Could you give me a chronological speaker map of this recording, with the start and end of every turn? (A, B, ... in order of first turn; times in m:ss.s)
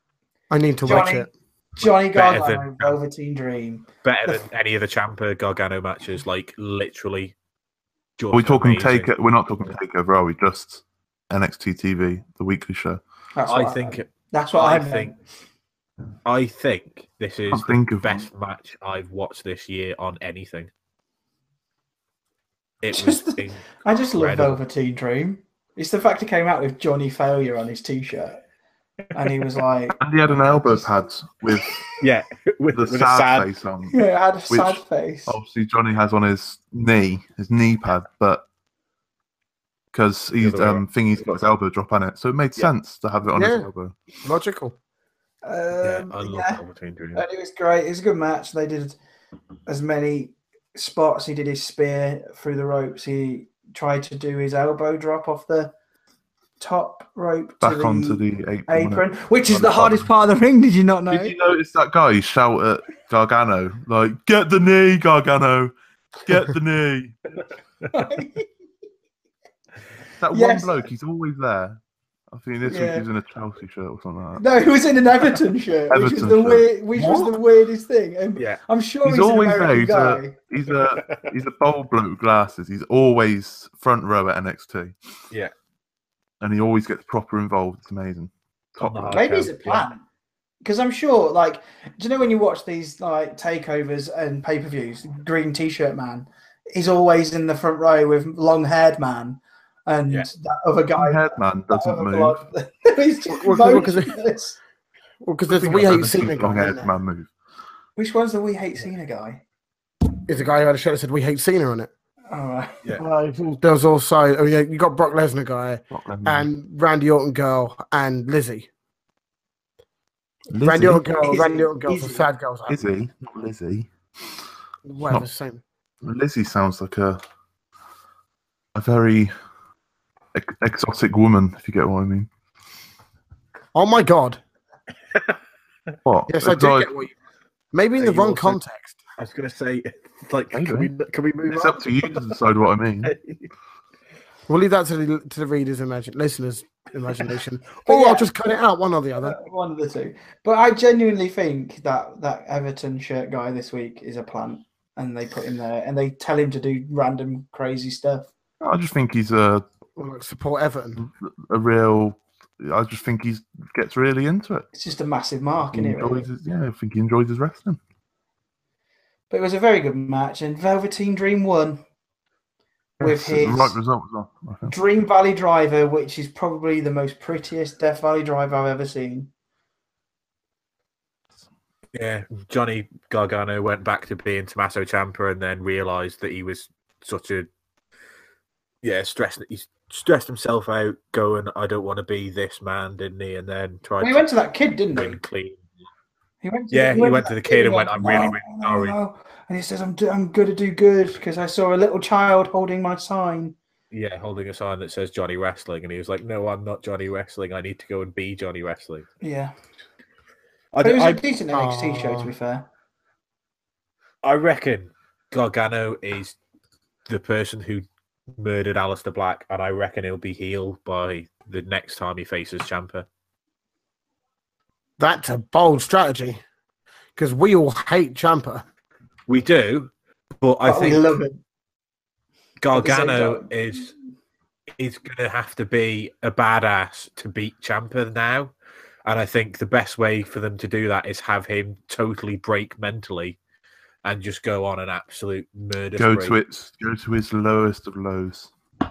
0:00.5-0:01.3 A
0:00.8-0:04.4 B
0:02.1-0:03.0 C
0:04.0-0:07.4 C
0:08.2-0:09.1 C
0:08.3-0:13.0 D
0:13.4-0:15.2 B
0:13.5-0:15.1 C
0:16.2-0:20.7 C
0:17.5-0:18.3 D
0:22.8-0:24.6 C
0:22.9-0:28.4 B
0:29.1-0:30.0 B
0:30.0-0:31.8 D
0:32.0-0:33.5 C
0:32.7-0:34.0 D
0:33.9-0:35.4 B
0:34.5-0:38.4 D
0:39.9-0:44.0 D
0:40.4-0:40.8 C
0:43.3-0:43.7 A
0:44.2-0:44.7 A
0:45.4-0:46.6 B
0:45.8-0:47.2 C
0:47.2-0:49.0 B
0:49.7-0:55.7 B
0:56.6-1:01.4 B
0:57.6-1:00.1 D
1:01.1-1:07.3 D
1:07.9-1:08.5 B
1:10.2-1:11.8 D
1:10.3-1:10.9 B
1:12.3-1:14.4 D
1:12.6-1:13.0 B
1:14.4-1:20.4 B
1:15.9-1:16.7 D
1:19.0-1:25.0 D
1:20.8-1:21.3 C
1:26.4-1:29.3 D
1:28.8-1:29.9 C
1:29.1-1:30.0 B
1:30.6-1:44.6 B
1:41.0-1:42.4 D
1:43.3-1:44.2 A
1:45.2-1:46.9 A
1:45.5-1:47.3 D
1:48.0-1:49.4 B
1:50.3-1:51.9 A
1:52.3-1:52.8 B
1:53.0-1:58.7 A
1:55.9-1:56.5 D
2:00.5-2:01.0 D
2:00.6-2:02.9 A
2:01.2-2:02.2 B
2:02.7-2:03.9 D
2:04.8-2:05.6 A
2:06.0-2:07.2 D
2:08.7-2:09.3 D
2:10.3-2:12.3 D
2:13.7-2:14.4 A
2:16.0-2:16.9 D
2:16.3-2:17.1 A
2:17.7-2:19.0 A
2:18.0-2:18.6 C
2:19.2-2:22.5 C
2:20.5-2:20.9 D
2:21.5-2:23.1 D
2:23.0-2:23.5 C
2:24.5-2:29.4 A
2:27.9-2:28.3 B
2:29.2-2:38.3 B
2:38.6-2:39.6 D
2:40.0-2:41.0 A
2:41.0-2:44.7 D
2:44.7-2:46.3 B
2:45.7-2:47.8 D
2:49.3-2:51.8 B
2:53.0-2:53.8 B
2:53.0-2:54.7 D
2:54.7-2:59.3 B
3:01.9-3:07.5 C
3:08.8-3:14.3 C
3:14.0-3:15.2 B
3:14.9-3:15.6 C
3:16.4-3:23.6 B
3:16.7-3:19.0 C
3:23.9-3:29.0 C
3:29.2-3:29.5 B
3:30.7-3:31.2 C
3:30.8-3:32.7 B
3:31.5-3:32.3 A
3:34.2-3:36.4 C
3:37.1-3:43.0 C
3:45.0-3:46.4 A
3:47.2-3:48.6 A
3:49.3-3:51.0 C
3:50.6-3:51.4 B
3:52.6-3:53.9 C
3:52.7-3:53.5 B
3:54.8-3:58.5 C
3:59.0-4:03.4 C
4:04.0-4:06.4 C
4:06.0-4:08.5 D